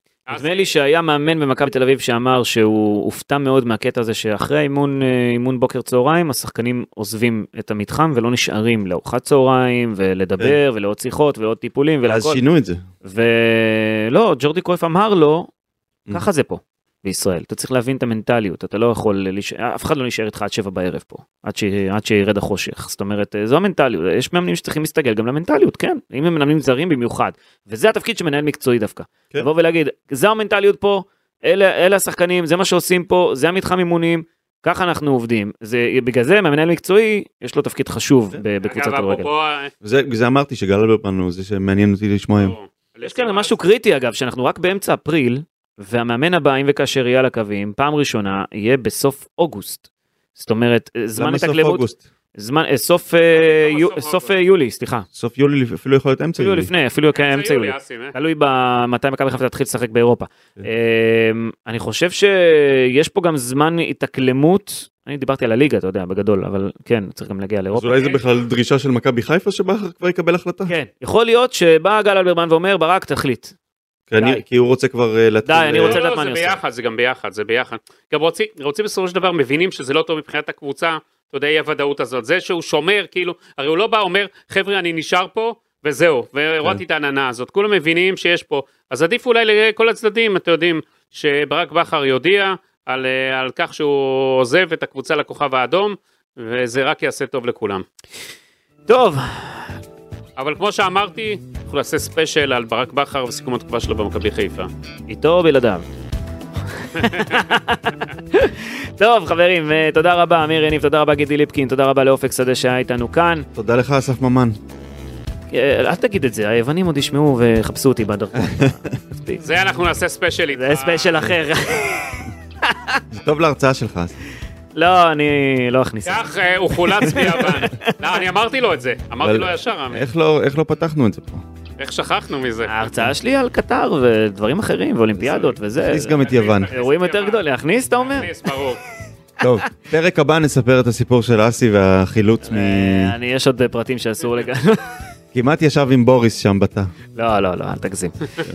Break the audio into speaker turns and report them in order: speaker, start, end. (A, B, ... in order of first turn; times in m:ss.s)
0:00.3-0:00.7 A
0:00.3-0:12.4 B
0:12.0-0:12.8 C
0:13.0-0:15.5 B
0:16.1-0:39.3 B
0:38.6-0:39.7 A
0:39.8-0:42.6 C
0:42.4-0:43.6 A
0:43.0-0:55.1 B
0:51.2-0:52.0 C
0:53.3-0:54.4 A
0:55.1-0:56.7 C
0:56.4-1:08.2 B
0:57.1-0:58.1 A
1:07.7-1:10.7 C
1:10.7-1:13.6 B
1:14.1-1:16.0 C
1:15.5-1:16.6 B
1:15.8-1:37.8 A
1:38.9-1:39.7 B
1:40.4-1:44.7 A
1:45.1-1:45.8 B
1:46.8-1:53.5 B
1:47.0-1:47.5 A
1:53.6-1:54.6 C
1:55.5-1:59.4 B
1:58.4-1:59.0 C
1:59.4-2:01.4 A
2:00.6-2:03.0 B
2:03.1-2:04.2 C
2:04.8-2:06.2 B
2:06.0-2:10.1 A
2:06.8-2:08.0 B
2:09.2-2:11.4 C
2:11.8-2:12.8 A
2:12.7-2:16.1 B
2:15.3-2:15.6 A
2:15.8-2:16.7 C
2:16.1-2:17.4 A
2:16.7-2:18.5 B
2:18.0-2:18.8 A
2:19.4-2:23.1 C
2:22.4-2:24.9 B
2:25.3-2:26.9 C
2:27.2-2:28.1 B